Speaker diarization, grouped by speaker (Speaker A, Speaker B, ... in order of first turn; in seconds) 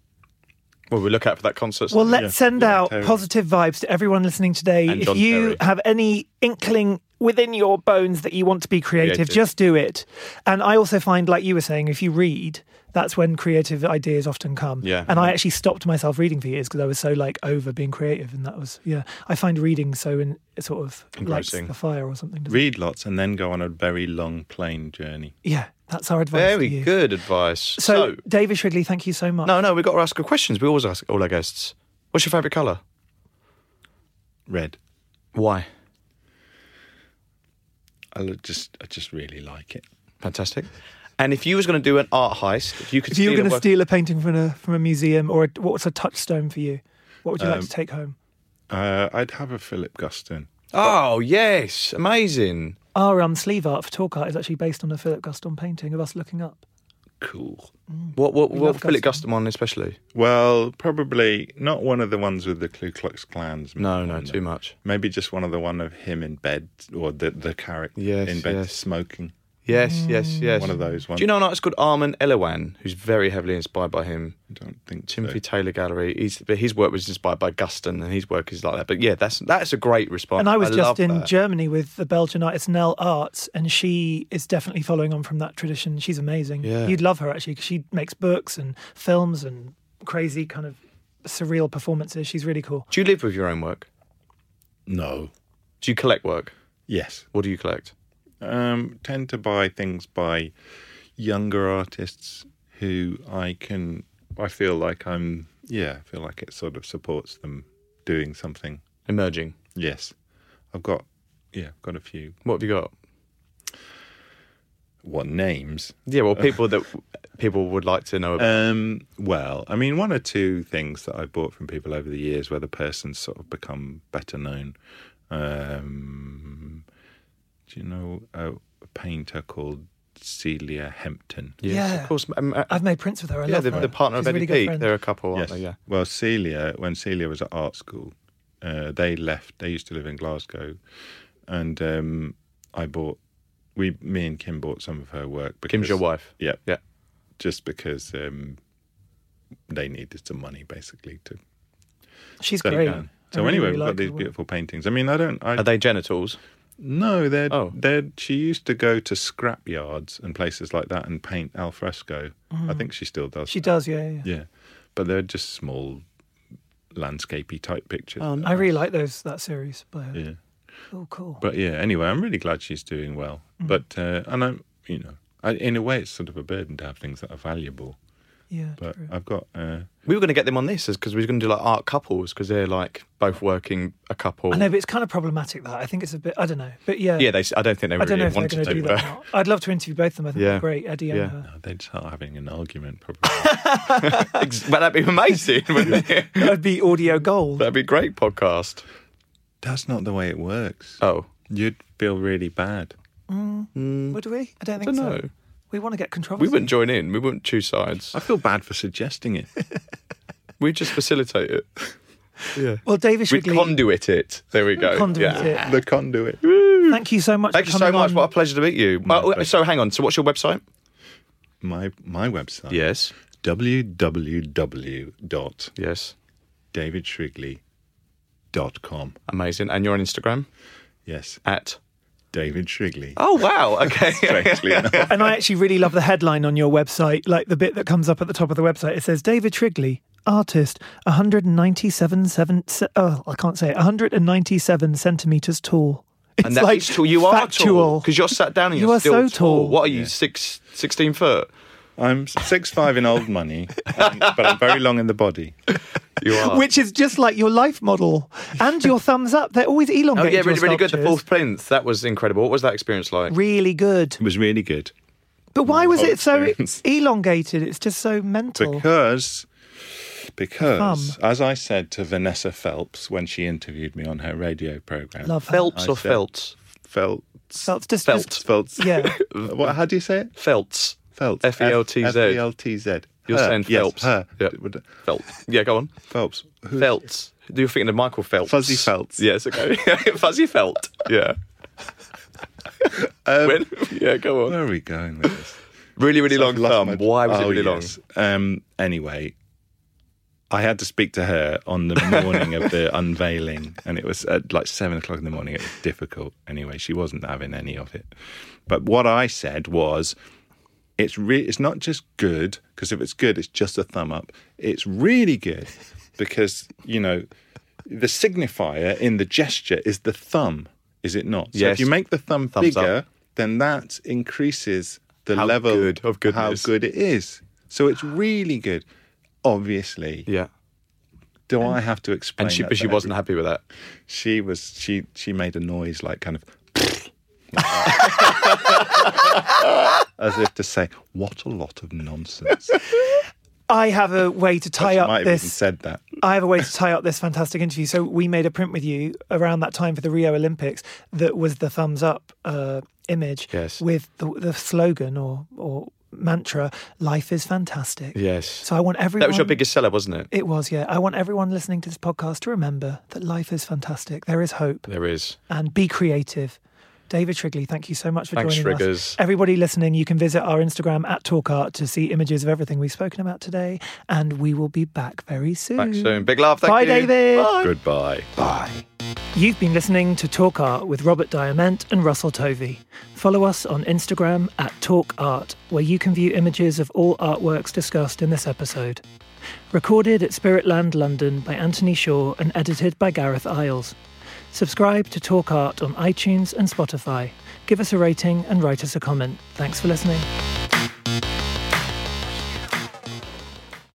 Speaker A: 0.9-2.2, 4.9-5.6, 9.0-9.4, 14.8-15.3, 21.2-21.7, 26.3-28.2, 29.4-32.8, 35.3-35.7, 40.2-43.6, 50.7-52.8, 58.1-60.0, 63.8-64.7, 68.0-68.8, 69.7-74.4, 75.1-81.3, 86.6-87.0, 92.9-93.9, 95.8-96.5, 97.3-97.9, 109.1-109.5, 112.4-112.9, 116.1-118.5, 131.6-132.8, 133.5-135.8, 145.7-146.8, 155.6-156.4, 157.5-157.7, 168.2-168.5, 180.1-184.7, 187.2-189.1, 190.3-191.3, 194.0-196.6, 197.6-198.8, 201.0-201.3, 203.7-204.2, 204.8-205.3, 206.4-208.2, 210.6-211.7, 212.5-215.6, 216.4-217.0, 217.5-220.6, 222.7-223.1, 225.8-226.1, 229.3-230.5, 231.4-231.8, 233.2-235.2, 246.4-251.5, 256.2-256.6, 260.1-263.3, 275.5-276.5, 278.1-279.8, 280.4-282.4, 283.3-284.5, 285.1-285.9, 286.8-291.4, 293.4-294.6, 296.0-297.9, 321.5-321.9, 322.5-322.9, 325.3-326.7, 332.4-333.6, 338.0-338.7, 353.5-353.8, 358.1-360.3, 364.9-365.4, 368.4-369.2, 375.8-377.7
Speaker B: 1.9-22.6, 25.4-26.9, 27.8-29.5, 43.1-48.1, 52.9-56.6, 57.9-59.2, 70.0-70.6, 80.4-92.9, 131.6-132.1, 132.7-134.9, 152.4-154.3, 162.5-162.9, 163.5-164.3, 168.4-170.2, 170.9-171.4, 178.5-179.1, 184.5-187.3, 188.0-191.4, 193.2-194.4, 195.8-197.7, 203.3-206.7, 212.8-213.8, 214.9-215.7, 216.9-218.3, 235.1-248.1, 248.7-249.8, 256.3-261.2, 263.3-264.2, 265.5-268.9, 270.8-271.2, 275.2-275.7, 277.6-279.1, 343.7-345.6, 346.2-359.6, 360.3-364.9, 365.5-366.6, 367.1-377.5, 379.3-389.0, 389.7-393.9, 394.5-400.3
Speaker C: 2.1-3.2, 22.5-25.3, 34.5-34.8, 38.1-39.8, 47.4-47.7, 48.7-51.0, 57.2-57.7, 60.1-69.3, 70.6-71.3, 74.5-75.4, 94.9-95.3, 96.9-97.3, 98.4-100.5, 101.2-108.8, 109.7-110.1, 110.7-112.3, 115.0-116.6, 118.4-124.8, 125.3-126.8, 127.7-131.6, 135.3-140.8, 141.5-143.2, 143.8-146.6, 147.4-148.6, 149.7-151.4, 152.6-155.7, 156.8-166.0, 166.9-168.7, 171.4-178.0, 178.8-179.9, 188.6-188.9, 191.4-193.8, 199.6-202.9, 208.1-209.5, 215.0-216.4, 219.0-219.5, 221.6-222.8, 223.4-225.7, 226.7-227.6, 228.5-229.2, 231.1-231.4, 232.3-233.2, 233.8-235.3, 249.8-250.1, 252.0-255.6, 264.2-264.9, 265.6-266.8, 268.6-269.5, 270.2-276.2, 276.8-280.3, 281.1-285.1, 286.1-287.0, 288.4-289.2, 292.9-293.9, 294.4-295.6, 296.3-299.3, 300.5-308.1, 308.7-310.1, 311.0-317.3, 317.8-328.9, 329.4-330.3, 331.5-333.1, 334.1-339.4, 340.1-342.8, 344.8-346.2, 377.5-378.8